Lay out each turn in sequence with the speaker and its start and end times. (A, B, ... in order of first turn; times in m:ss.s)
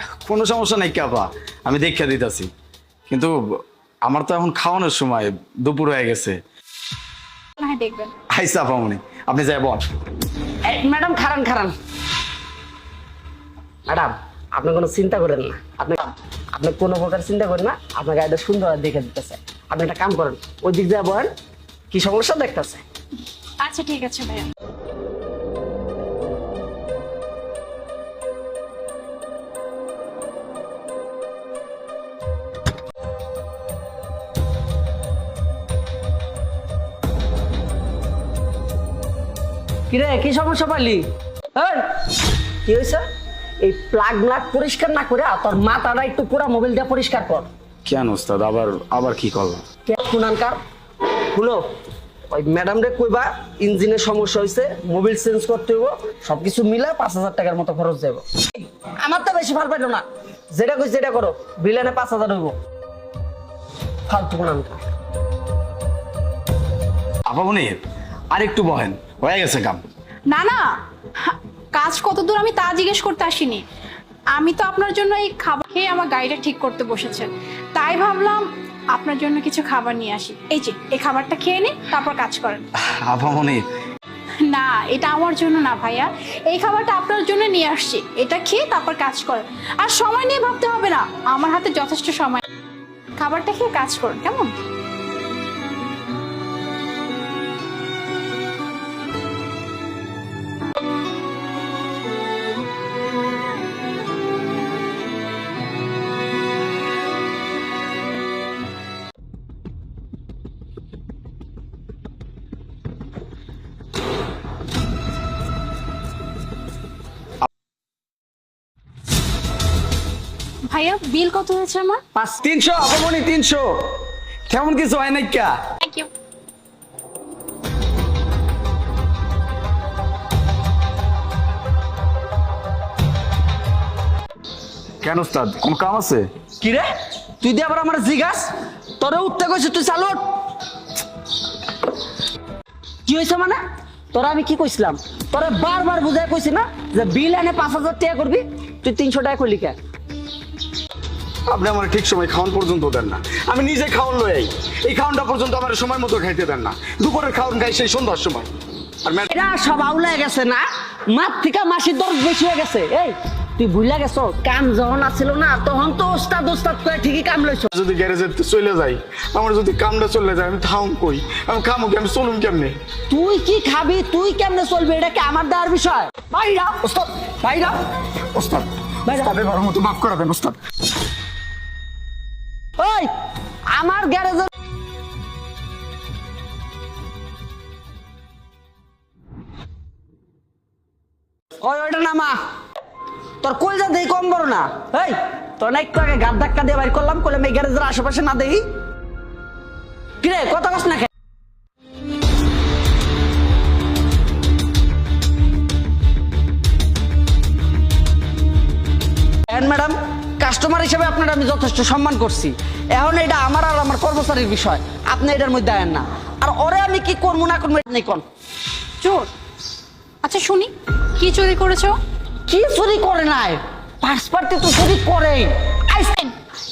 0:00.2-0:02.5 A
0:03.1-0:03.4 A
0:04.0-0:06.4 A
0:07.6-0:08.1 B
0:08.3-0:09.8 A
0:10.6-0:11.7 C
0:13.9-0:21.3 C
0:21.9-0:22.8 C
0:23.6-0:24.5 B
0:39.9-0:41.9 C
0:42.6-0:43.0 C
0:43.6-0:47.5 C
0:47.8-0:49.6 A
0:49.8-0:50.6 C
0:51.3-0:51.6 C
0:52.3-1:02.5 C
1:04.1-1:04.8 C
1:07.2-1:09.8 A
1:10.3-1:10.7 B
1:11.2-1:13.6 B
1:14.3-1:22.6 B
1:22.8-1:23.6 A
1:24.4-1:32.4 B
1:33.2-1:34.5 B
2:00.7-2:02.0 B
2:02.1-2:03.6 C
2:04.5-2:05.5 A
2:05.8-2:06.1 B
2:15.0-2:16.3 A
2:16.6-2:16.8 C
2:17.4-2:20.2 C
2:23.0-2:23.6 C
2:24.1-2:29.8 C
2:31.5-2:38.5 A
2:39.3-2:47.7 C
2:47.7-2:52.8 A
2:53.1-2:57.8 C
2:58.3-3:00.5 A
2:59.0-2:59.4 C
3:02.8-3:03.1 C
3:03.7-3:04.5 C
3:11.6-3:12.4 C
3:13.4-3:18.6 C
3:20.2-3:21.1 C
3:29.4-3:38.2 C
3:39.0-3:39.3 B
3:40.2-3:42.0 B
3:42.5-3:45.5 C
3:46.0-3:46.3 B